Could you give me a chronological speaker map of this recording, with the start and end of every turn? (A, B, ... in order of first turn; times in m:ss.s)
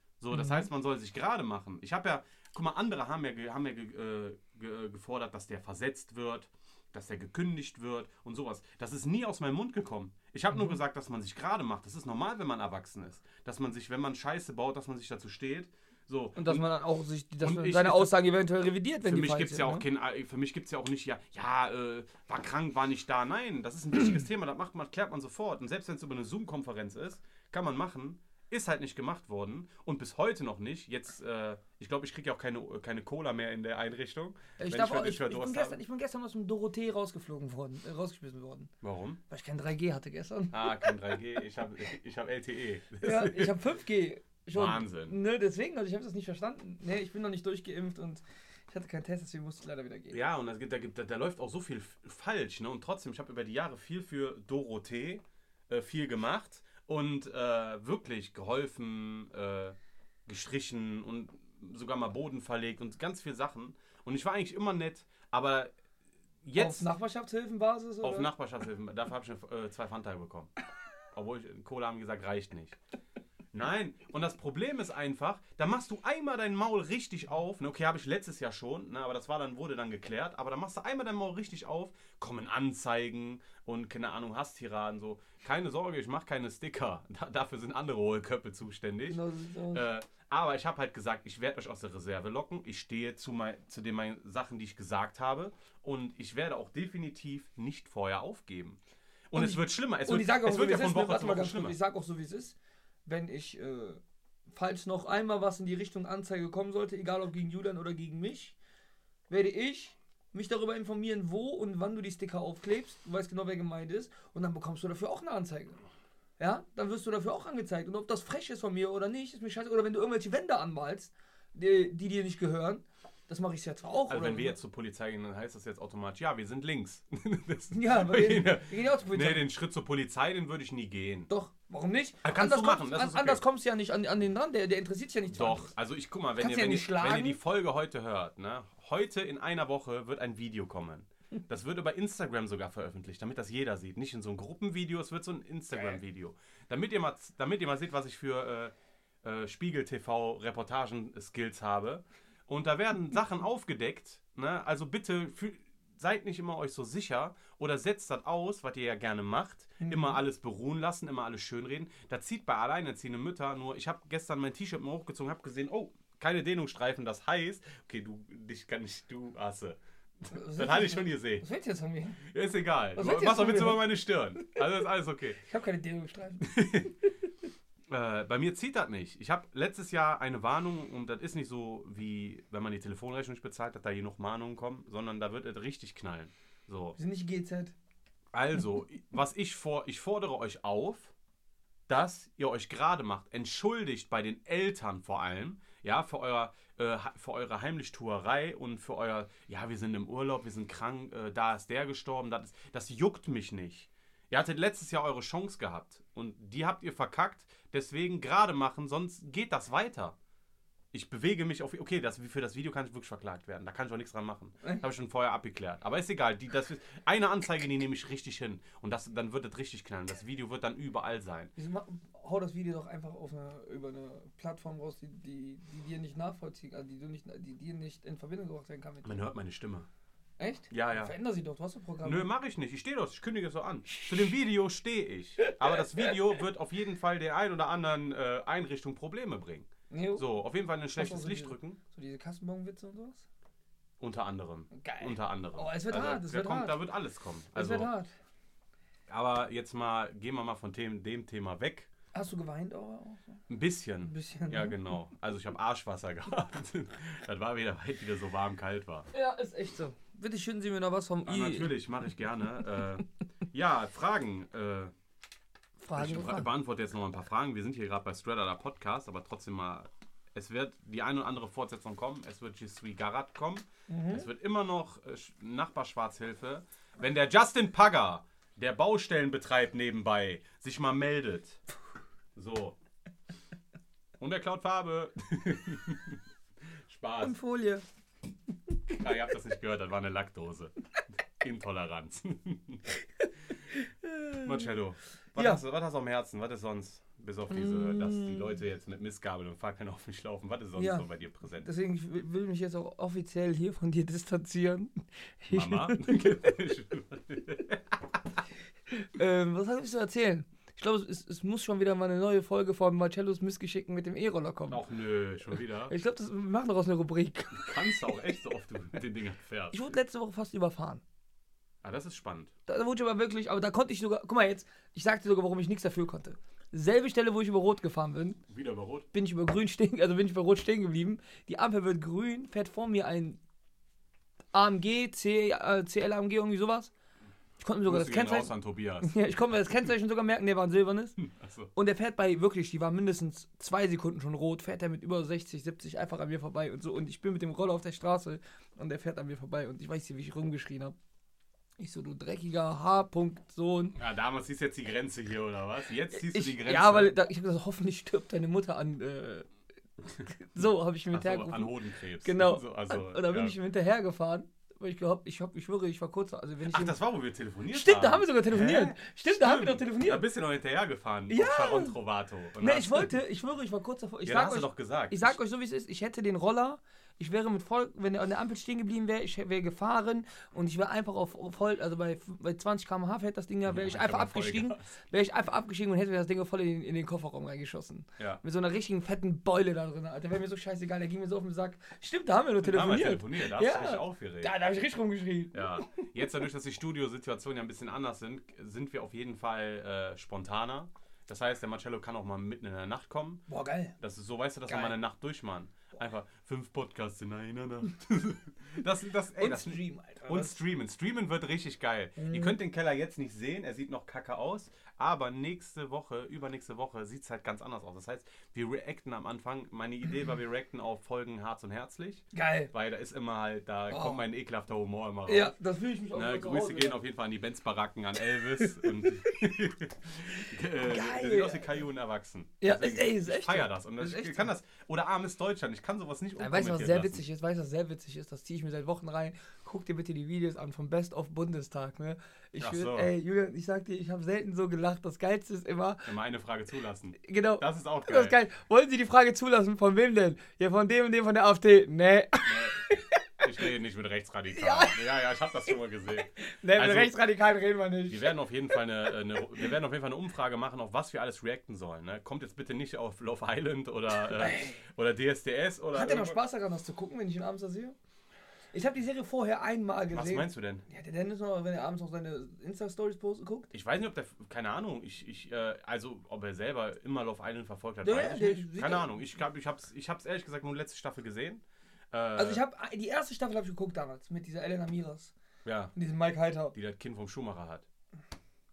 0:00.2-0:16.6 A
0:00.3-0:00.7 B
0:16.4-0:19.8 B
0:17.4-0:18.2 A
0:19.0-0:35.8 A
0:34.6-0:38.7 B
0:38.8-0:39.2 A
0:39.3-0:41.2 B
0:40.5-0:43.6 A
0:43.0-0:50.2 B
0:44.5-0:45.2 A
0:50.1-1:05.7 A
1:06.4-1:06.9 A
1:06.6-1:08.3 B
1:08.0-1:10.5 A
1:11.1-1:12.8 A
1:13.5-1:29.2 A
1:29.1-1:29.9 B
1:29.7-1:41.8 A
1:39.4-1:48.6 B
1:49.3-1:55.8 B
1:56.4-2:04.6 B
2:04.1-2:11.3 A
2:07.7-2:09.4 B
2:11.3-2:15.7 B
2:12.2-2:13.4 A
2:15.3-2:51.4 A
2:16.4-2:17.4 B
2:39.8-2:40.2 B
2:50.3-2:52.2 B
2:52.2-2:55.4 A
2:53.0-2:54.5 B
2:55.4-2:56.6 B
2:56.4-2:56.9 A
2:57.9-3:07.0 A
3:07.0-3:07.7 B
3:08.3-3:11.1 A
3:11.9-3:30.2 A
3:30.9-3:41.5 A
3:41.6-3:49.2 B
3:49.0-3:49.9 A
3:50.4-3:52.3 B
3:50.7-3:51.1 A
3:52.0-4:01.8 A
3:59.9-4:00.2 B
4:00.9-4:03.2 B
4:04.0-4:07.9 A
4:04.7-4:06.8 B
4:07.5-4:08.1 B
4:09.1-4:11.9 A
4:12.1-4:13.4 B
4:13.5-4:19.1 A
4:14.0-4:14.8 B
4:19.1-4:21.7 B
4:21.2-4:24.9 A
4:25.8-4:26.5 B
4:25.9-4:41.6 A
4:33.9-4:34.3 B
4:42.4-4:42.8 A
4:44.2-4:46.2 A
4:46.8-4:47.4 A
4:47.2-4:47.8 B
4:48.9-4:50.7 A
4:51.4-4:52.8 A
4:53.2-4:54.7 B
4:54.4-5:01.7 A
4:55.3-4:55.6 B
4:57.5-4:58.6 B
5:00.8-5:01.0 B
5:01.6-5:06.4 B
5:05.5-5:08.0 A
5:08.9-5:14.8 B
5:14.7-5:15.9 A
5:15.9-5:18.1 B
5:17.5-5:19.8 A
5:19.7-5:21.0 B
5:21.8-5:22.5 A
5:22.7-5:28.4 B
5:28.5-5:29.1 A
5:29.1-5:33.4 B
5:34.5-5:36.9 B
5:37.6-5:41.2 B
5:37.8-5:39.2 A
5:41.2-5:41.7 A
5:41.7-5:51.0 B
5:51.8-5:54.0 B
5:53.9-5:57.1 A
5:56.1-5:59.5 B
6:00.2-6:07.0 B
6:01.1-6:03.6 A
6:06.7-6:13.1 A
6:07.7-6:10.2 B
6:11.3-6:12.0 B
6:12.6-6:36.0 B
6:14.2-6:15.4 A
6:23.7-6:24.9 A
6:32.6-6:34.5 A
6:35.5-6:43.4 A
6:43.5-6:44.0 B
6:44.0-7:05.5 A
6:44.7-6:45.0 B
6:49.4-6:50.6 B
6:52.2-6:52.6 B
7:02.3-7:02.7 B
7:03.9-7:04.2 B
7:05.3-7:07.0 B
7:06.1-7:17.2 A
7:10.8-7:11.8 B
7:12.6-7:14.5 B
7:16.4-7:26.1 B
7:22.6-7:23.1 A
7:26.0-7:28.4 A
7:27.2-7:33.2 B
7:32.4-7:32.8 A
7:33.4-7:37.1 A
7:34.5-7:35.0 B
7:36.4-7:38.3 B
7:38.1-7:46.4 A
7:44.2-7:44.8 B
7:45.9-7:48.0 B
7:48.7-7:53.7 B
7:50.1-7:50.8 A
7:53.7-8:02.6 A
7:58.0-7:59.1 B
8:02.4-8:05.3 B
8:05.6-8:05.9 A
8:05.9-8:06.7 B
8:06.7-8:07.8 A